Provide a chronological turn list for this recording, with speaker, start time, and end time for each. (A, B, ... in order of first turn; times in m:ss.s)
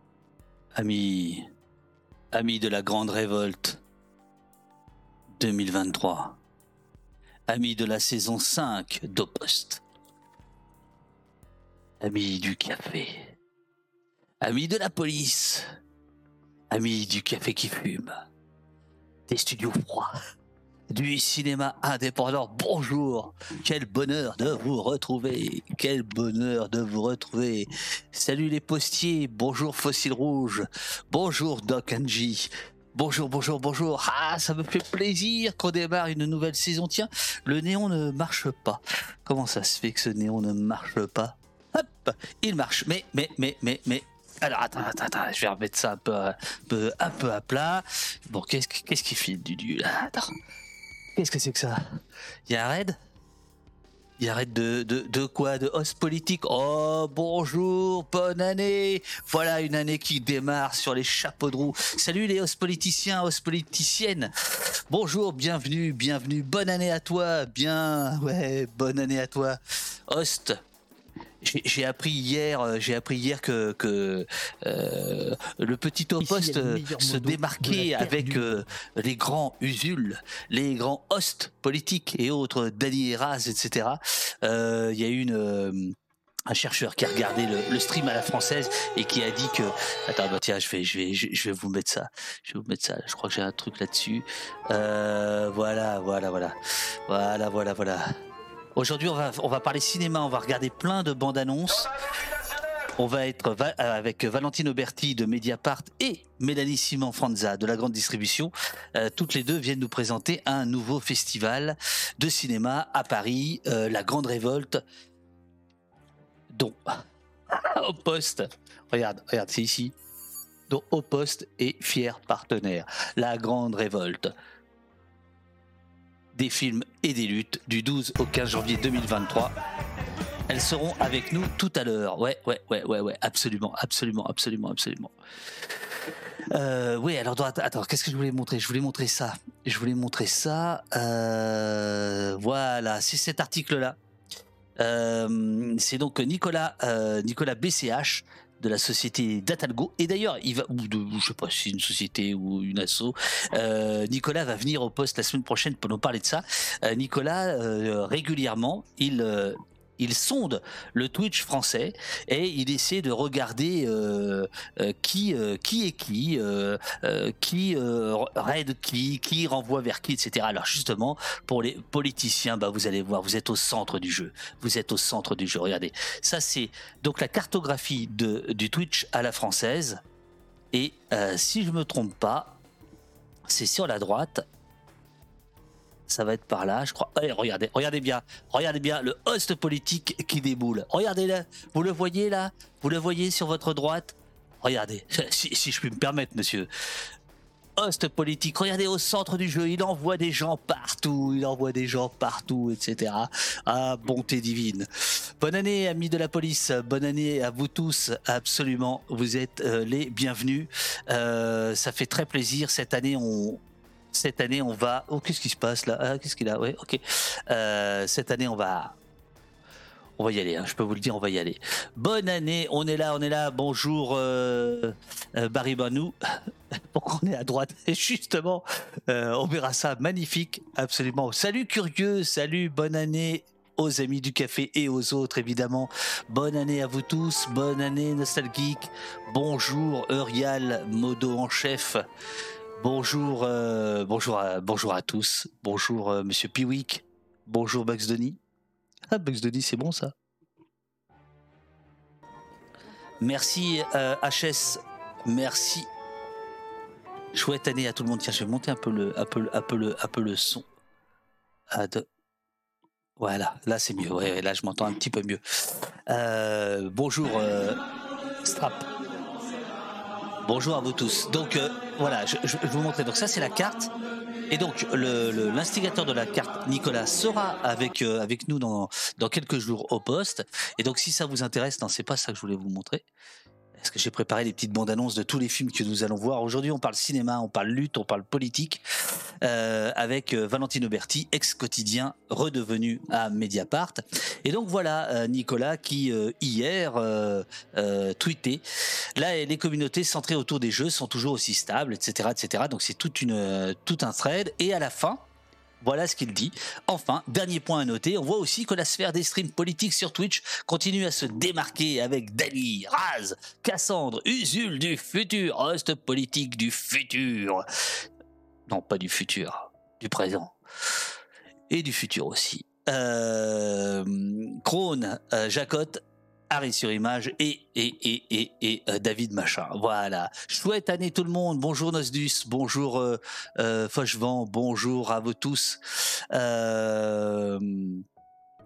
0:00.7-0:01.4 A
0:02.3-0:03.8 A
0:05.3-0:06.4 A
0:07.5-0:09.8 A
0:12.0-0:13.3 A
0:14.4-0:15.6 A
0:16.7-0:18.2 A
0:19.3-0:20.1 A
0:20.9-0:50.3 A
0:51.1-0:51.8 A
0:52.5-0:53.0 A
0:54.2-1:10.6 A
1:11.4-1:25.9 A
1:26.5-1:36.5 A
1:37.1-1:38.0 A
1:38.8-1:41.9 A
1:42.9-1:54.8 A
1:56.5-1:59.9 A
2:00.7-2:04.3 A
2:06.3-2:09.5 A
2:10.5-2:15.1 A
2:16.5-2:24.0 A
2:24.8-3:00.0 A
3:00.7-3:02.6 A
3:03.4-3:04.4 A
3:06.1-3:16.7 A
3:17.8-3:39.0 A
3:40.2-3:46.2 A
3:46.7-4:02.0 A
4:02.8-4:08.4 A
4:09.1-4:10.1 A
4:13.2-4:15.9 A
4:17.3-4:20.7 A
4:21.7-4:22.0 A
4:23.2-4:27.8 A
4:28.4-4:28.9 A
4:30.4-4:33.9 A
4:34.5-4:43.0 A
4:43.8-4:48.8 A
4:49.4-4:58.6 A
4:59.2-5:05.2 A
5:05.8-5:17.6 A
5:18.7-5:20.6 A
5:21.7-5:38.0 A